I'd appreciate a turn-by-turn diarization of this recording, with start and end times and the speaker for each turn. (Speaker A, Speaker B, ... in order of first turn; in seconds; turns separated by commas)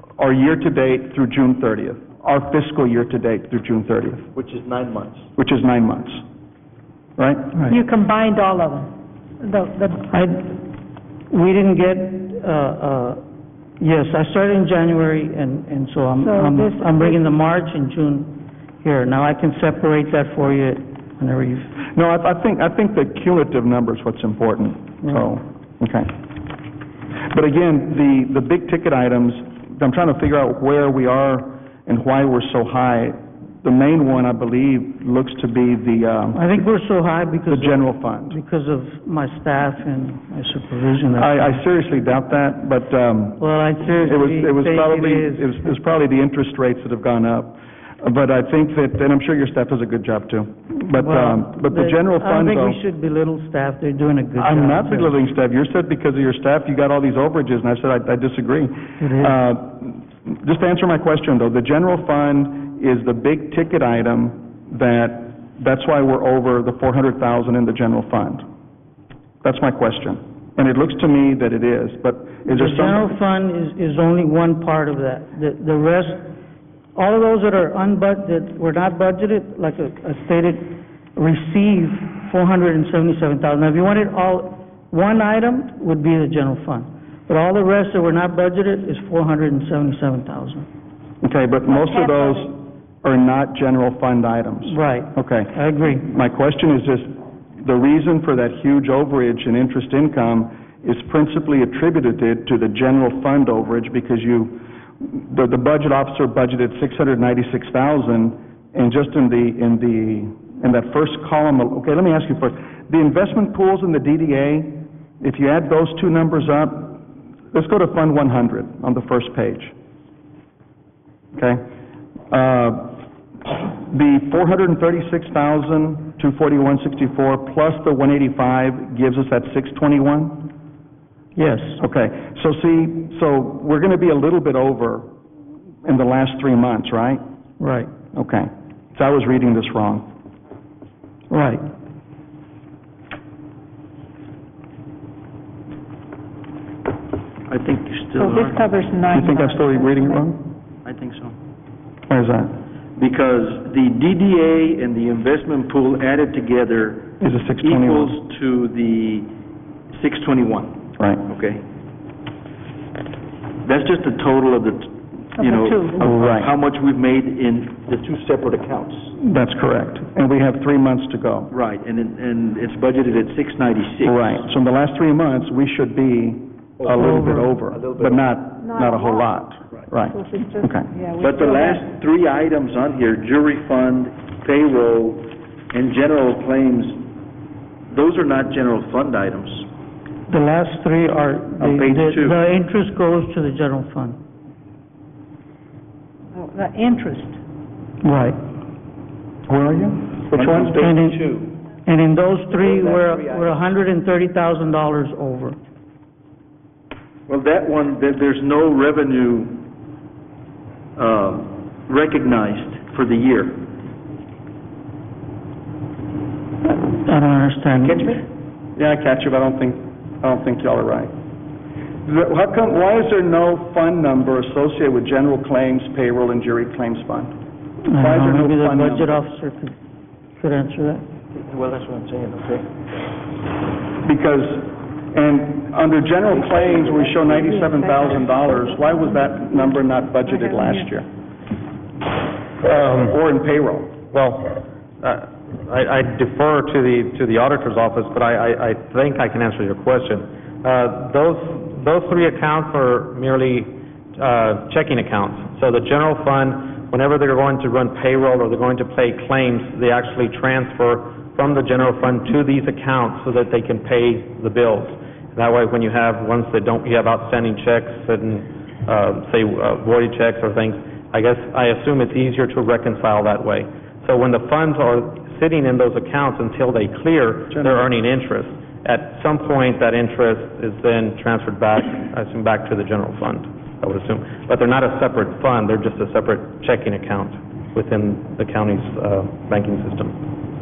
Speaker A: 0.2-4.2, Speaker B: 4.3-5.3, Speaker A: 5.4-6.2, Speaker A: 7.2-7.8, Speaker C: 7.7-10.1, Speaker D: 10.1-10.5, Speaker D: 11.3-13.2, Speaker D: 13.8-21.7, Speaker C: 16.2-17.4, Speaker A: 21.9-26.1, Speaker A: 27.3-36.5, Speaker D: 36.3-41.6, Speaker A: 37.5-38.4, Speaker A: 41.1-43.4, Speaker D: 43.4-45.7, Speaker A: 44.0-52.8, Speaker D: 51.0-55.2, Speaker A: 54.4-68.4, Speaker D: 59.0-59.4, Speaker A: 69.4-73.1, Speaker D: 72.5-76.3, Speaker D: 77.0-90.7, Speaker A: 91.2-117.0, Speaker C: 91.7-92.5, Speaker D: 94.7-96.0, Speaker A: 117.5-119.7, Speaker A: 121.3-121.6, Speaker A: 122.3-123.0, Speaker A: 123.9-130.5, Speaker D: 131.4-131.8, Speaker A: 131.8-135.1, Speaker A: 135.8-137.2, Speaker D: 137.6-137.9, Speaker A: 138.1-140.1, Speaker D: 141.3-141.6, Speaker B: 147.5-148.6, Speaker C: 148.2-150.2, Speaker A: 149.1-150.4, Speaker B: 150.8-151.4, Speaker A: 152.1-152.5, Speaker B: 153.0-159.3, Speaker A: 157.2-158.2, Speaker B: 159.9-161.6, Speaker A: 161.0-161.2, Speaker B: 163.6-169.1, Speaker C: 165.4-166.1, Speaker A: 166.0-166.5, Speaker A: 169.2-171.5, Speaker B: 171.5-174.3, Speaker A: 174.0-180.9, Speaker B: 176.8-177.1, Speaker D: 176.9-177.5, Speaker B: 177.7-178.3, Speaker C: 178.6-179.3, Speaker C: 180.1-181.9, Speaker B: 181.2-187.1, Speaker B: 187.9-189.7, Speaker D: 190.3-194.2, Speaker B: 191.6-192.4, Speaker C: 196.3-197.4, Speaker D: 198.0-198.4, Speaker A: 199.5-200.8, Speaker B: 200.3-201.6, Speaker D: 200.8-201.2, Speaker D: 201.8-205.6, Speaker B: 202.5-203.6, Speaker B: 207.3-209.6, Speaker B: 211.0-213.7, Speaker D: 216.6-218.2, Speaker B: 217.8-218.2, Speaker A: 218.8-221.1, Speaker A: 222.1-227.3, Speaker D: 227.9-229.7, Speaker A: 227.9-229.2, Speaker D: 230.4-231.0, Speaker B: 231.3-232.7, Speaker A: 234.0-241.1, Speaker B: 236.6-237.3, Speaker C: 237.4-240.9, Speaker E: 242.6-243.2, Speaker A: 242.9-243.9, Speaker E: 244.1-290.2, Speaker A: 277.5-277.9